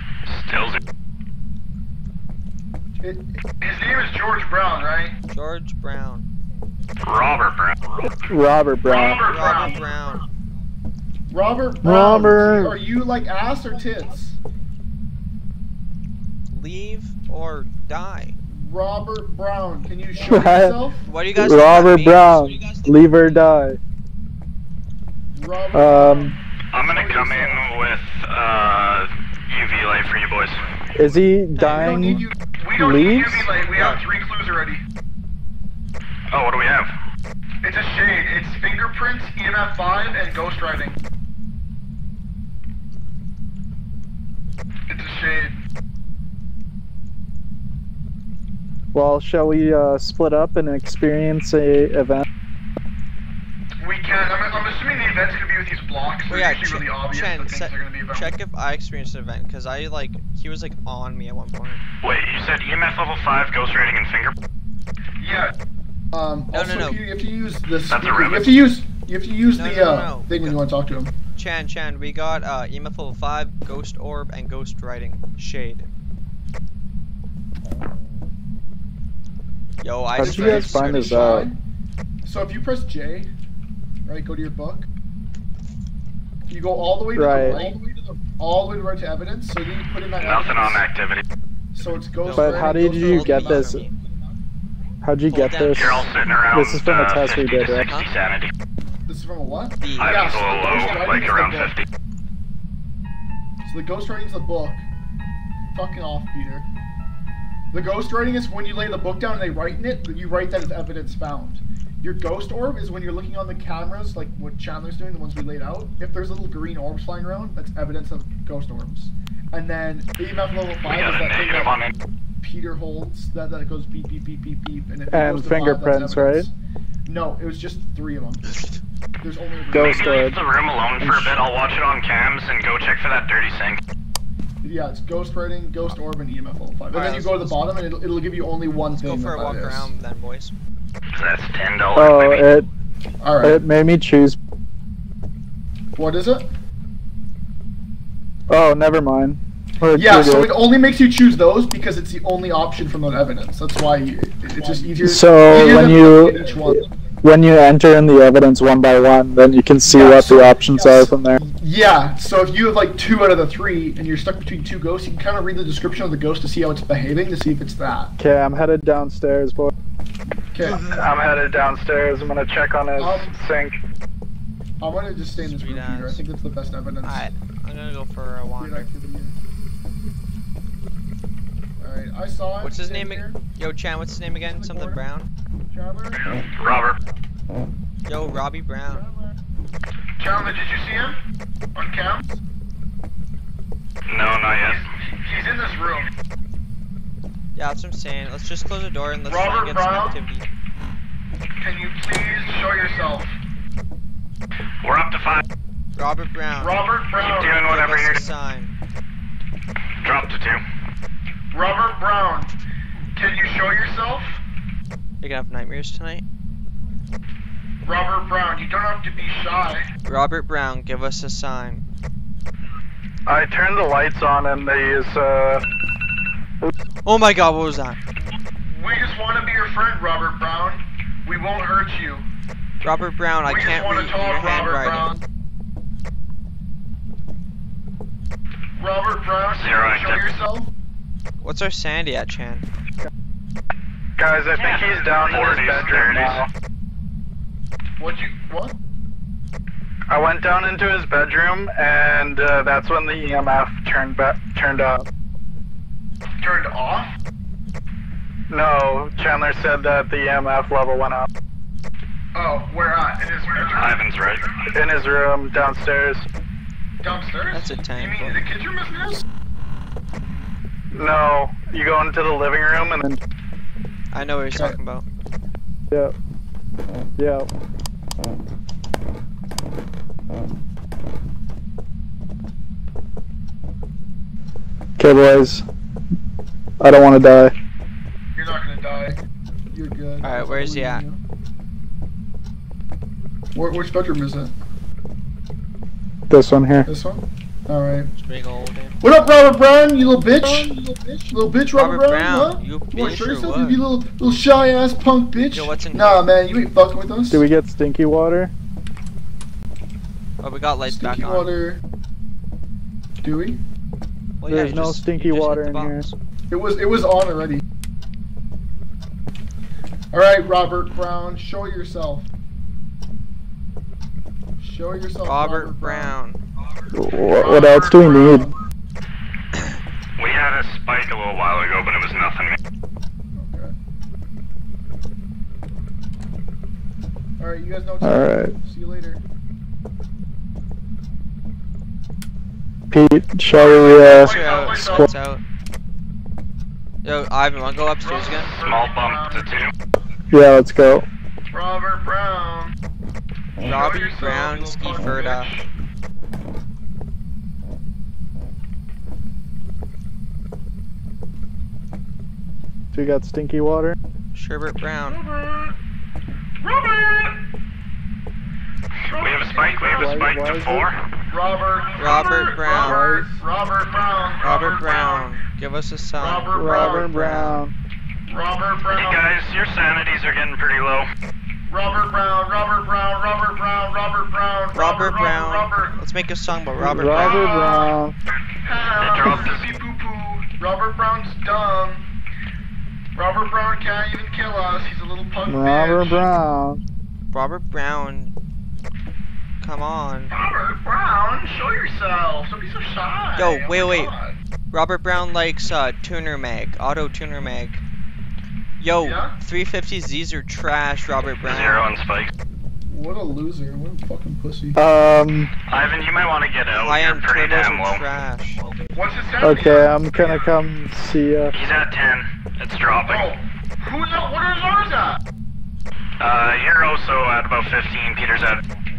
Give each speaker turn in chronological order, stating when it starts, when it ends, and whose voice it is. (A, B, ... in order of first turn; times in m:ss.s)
0:00.3-0:00.8 A
0:03.0-0:03.4 B
0:03.6-0:05.1 C
0:05.3-0:06.2 D
0:07.0-0:08.1 A
0:08.0-0:09.2 E
0:08.8-0:09.8 C
0:09.2-0:10.2 D
0:11.3-0:14.4 B
0:11.8-0:12.8 E
0:16.5-0:18.4 D
0:18.5-0:21.0 B
0:20.2-0:20.8 E
0:21.0-0:23.3 D
0:21.3-0:23.8 E
0:25.3-0:27.6 B
0:25.7-0:26.3 E
0:26.7-0:30.6 A
0:30.9-0:32.2 E
0:31.6-0:32.0 D
0:31.7-0:32.4 B
0:32.5-0:34.8 C
0:32.8-0:33.5 E
0:33.7-0:34.0 D
0:36.3-0:36.9 A
0:37.6-0:41.0 C
0:44.9-0:45.6 C
0:48.9-0:52.2 E
0:53.8-0:58.2 C
0:56.3-1:01.8 D
1:02.0-1:04.3 A
1:05.2-1:05.5 C
1:06.1-1:11.1 B
1:06.5-1:07.0 D
1:07.9-1:08.6 A
1:09.5-1:10.6 D
1:11.4-1:15.9 D
1:19.8-1:21.5 D
1:20.2-1:21.5 E
1:20.2-1:21.6 B
1:22.2-1:23.3 B
1:24.0-1:24.9 B
1:26.5-1:27.8 B
1:27.1-1:27.6 E
1:27.4-1:27.6 D
1:28.4-1:30.8 B
1:30.2-1:31.2 A
1:31.8-1:34.0 B
1:32.2-1:33.9 D
1:32.3-1:33.8 E
1:35.0-1:37.8 E
1:35.3-1:36.1 D
1:35.7-1:38.5 A
1:37.9-1:38.1 D
1:39.1-1:41.7 B
1:39.8-1:40.5 D
1:40.0-1:41.8 A
1:43.6-1:44.8 B
1:45.7-1:46.7 B
1:47.7-2:01.8 B
2:00.8-2:01.9 A
2:02.4-2:06.5 B
2:05.1-2:06.5 E
2:07.0-2:08.5 B
2:09.2-2:10.2 B
2:09.7-2:10.4 E
2:09.9-2:13.8 A
2:11.0-2:11.4 E
2:14.6-2:19.9 B
2:16.9-2:17.7 D
2:18.9-2:20.5 D
2:21.1-2:22.5 A
2:22.0-2:22.6 E
2:23.2-2:23.6 B
2:23.4-2:24.4 E
2:26.0-2:26.5 B
2:28.5-2:30.5 E
2:29.9-2:36.9 B
2:34.7-2:41.4 E
2:39.8-2:48.1 B
2:48.2-2:49.7 E
2:50.5-2:50.8 B
2:50.8-2:53.8 E
2:53.0-2:53.4 B
2:54.8-2:57.3 B
2:55.4-2:56.2 D
2:57.0-2:58.9 D
2:58.6-2:59.3 B
3:01.8-3:03.4 B
3:02.6-3:05.3 D
3:04.3-3:05.0 B
3:05.7-3:06.3 B
3:06.6-3:07.0 A
3:08.1-3:09.0 D
3:08.8-3:09.4 B
3:10.2-3:11.2 C
3:11.7-3:12.2 C
3:14.1-3:14.8 A
3:15.2-3:16.1 C
3:17.6-3:20.4 D
3:19.3-3:20.1 C
3:21.6-3:23.3 C
3:24.8-3:25.4 A
3:26.0-3:26.8 D
3:26.6-3:27.6 C
3:27.2-3:28.2 A
3:27.6-3:28.7 D
3:30.0-3:30.6 A
3:31.5-3:32.5 C
3:33.1-3:34.4 C
3:35.2-3:36.2 D
3:37.8-3:39.8 C
3:40.0-3:41.8 D
3:43.2-3:45.6 E
3:47.0-3:48.0 D
3:48.6-3:52.2 C
3:52.8-3:55.1 D
3:53.4-3:55.2 C
3:58.8-4:00.6 C
3:59.5-4:00.2 A
4:01.4-4:02.6 D
4:04.2-4:06.5 E
4:04.6-4:06.4 A
4:08.0-4:08.7 C
4:10.1-4:15.1 E
4:16.4-4:17.1 C
4:18.5-4:21.3 E
4:22.3-4:24.0 C
4:23.4-4:23.8 B
4:23.7-4:24.4 A
4:24.7-4:26.2 E
4:27.0-4:29.2 C
4:27.5-4:28.4 D
4:30.9-4:33.2 E
4:34.1-4:35.0 D
4:37.2-4:37.5 E
4:45.0-4:45.6 E
4:46.8-4:47.5 E
4:48.4-4:48.9 C
4:48.7-4:49.2 B
4:49.7-4:51.2 B
4:50.2-4:51.0 D
4:53.5-4:54.5 B
4:56.3-4:56.9 E
4:56.8-4:58.1 B
4:58.1-4:59.0 D
4:59.0-5:07.4 B
5:01.8-5:03.8 D
5:05.5-5:06.3 D
5:07.3-5:08.5 E
5:10.4-5:11.5 D
5:10.8-5:11.8 B
5:13.2-5:13.6 B
5:14.4-5:16.1 D
5:14.5-5:16.0 E
5:16.5-5:17.6 B
5:20.1-5:22.3 B
5:24.6-5:26.2 B
5:25.2-5:26.4 D
5:26.9-5:28.5 E
5:27.4-5:28.4 C
5:27.4-5:28.5 B
5:30.2-5:32.6 A
5:33.4-5:33.7 B
5:37.4-5:39.2 B
5:38.0-5:38.5 E
5:42.9-5:44.3 E
5:43.5-5:45.1 C
5:43.9-5:45.4 D
5:47.0-5:48.5 D
5:48.0-5:49.4 C
5:48.6-5:49.7 A
5:50.3-5:51.0 E
5:51.5-5:52.7 C
5:53.6-5:55.5 D
5:53.6-5:55.6 C
6:02.9-6:04.0 E
6:04.3-6:05.2 D
6:05.1-6:05.7 C
6:06.6-6:07.4 C
6:09.0-6:10.2 C
6:09.2-6:11.0 A
6:09.9-6:10.9 E
6:11.3-6:15.3 C
6:12.0-6:13.2 D
6:12.8-6:13.4 E
6:14.4-6:17.6 D
6:16.2-6:17.1 C
6:16.5-6:17.7 E
6:18.3-6:19.2 C
6:18.9-6:21.1 A
6:21.7-6:26.0 C
6:24.7-6:27.5 D
6:26.8-6:28.1 E
6:27.1-6:27.9 C
6:28.6-6:32.0 C
6:29.0-6:29.6 A
6:33.1-6:36.2 C
6:35.5-6:36.8 E
6:37.3-6:38.3 D
6:39.6-6:40.3 D
6:40.3-6:44.3 C
6:43.3-6:44.1 D
6:44.7-6:47.8 D
6:48.8-6:51.8 D
6:49.0-6:49.3 C
6:51.4-6:52.3 A
6:52.8-6:54.8 B
6:54.8-6:55.5 E
6:55.7-6:58.0 A
6:56.7-6:58.6 D
6:58.9-6:59.7 C
6:59.4-7:01.5 E
6:59.4-6:59.8 B
7:01.5-7:03.3 A
7:03.0-7:05.2 C
7:06.2-7:08.6 A